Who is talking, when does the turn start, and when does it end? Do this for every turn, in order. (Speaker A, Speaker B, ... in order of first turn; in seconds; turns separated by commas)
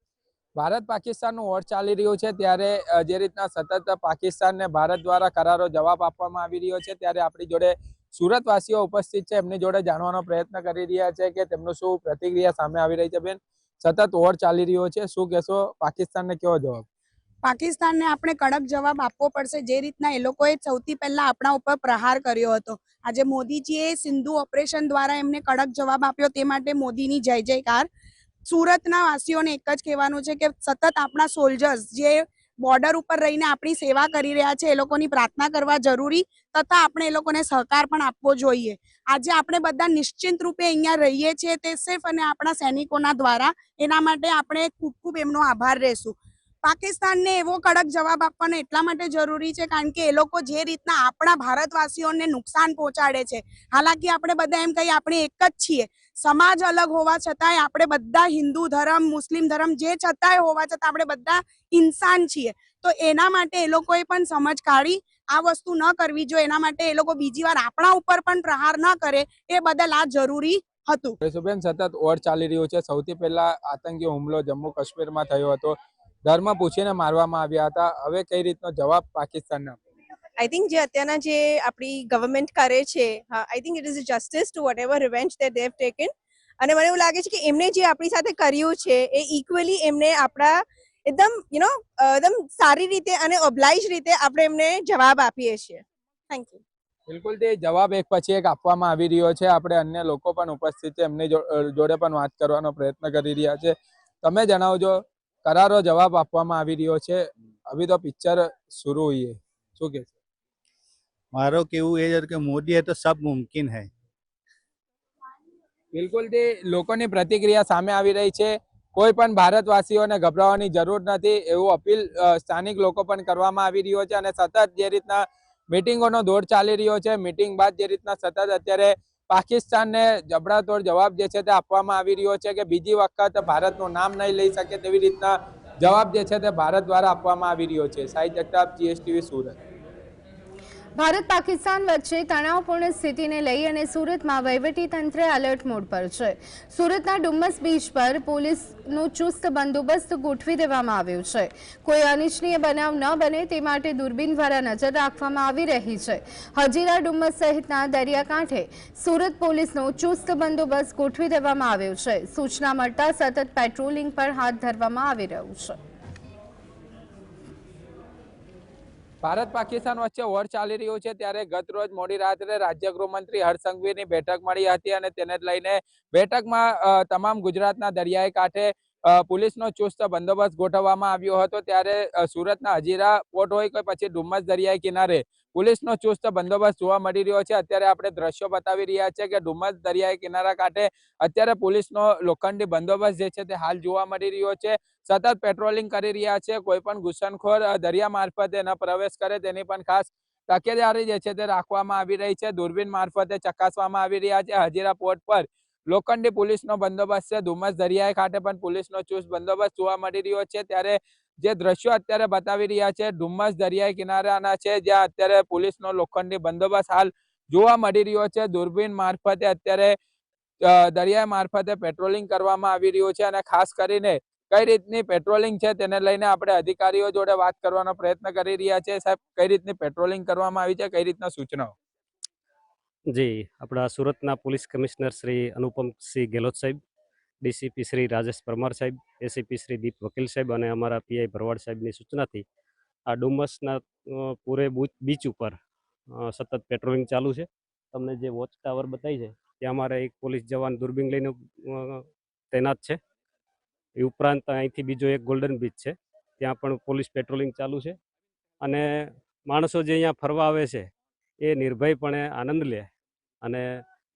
Speaker A: 0.6-16.9, Speaker B: 17.4-27.9, Speaker B: 28.5-71.2, Speaker A: 71.2-79.8, Speaker C: 80.4-96.6, Speaker A: 97.1-110.1, Speaker D: 111.3-113.9, Speaker A: 115.9-139.6, Speaker E: 141.0-165.8, Speaker A: 169.2-220.0, Speaker A: 220.6-231.7, Speaker F: 233.1-236.8, Speaker F: 237.4-242.4, Speaker F: 243.1-245.6, Speaker F: 246.2-253.0, Speaker F: 254.0-258.0, Speaker F: 258.6-258.9, Speaker F: 259.5-260.9, Speaker F: 261.4-262.9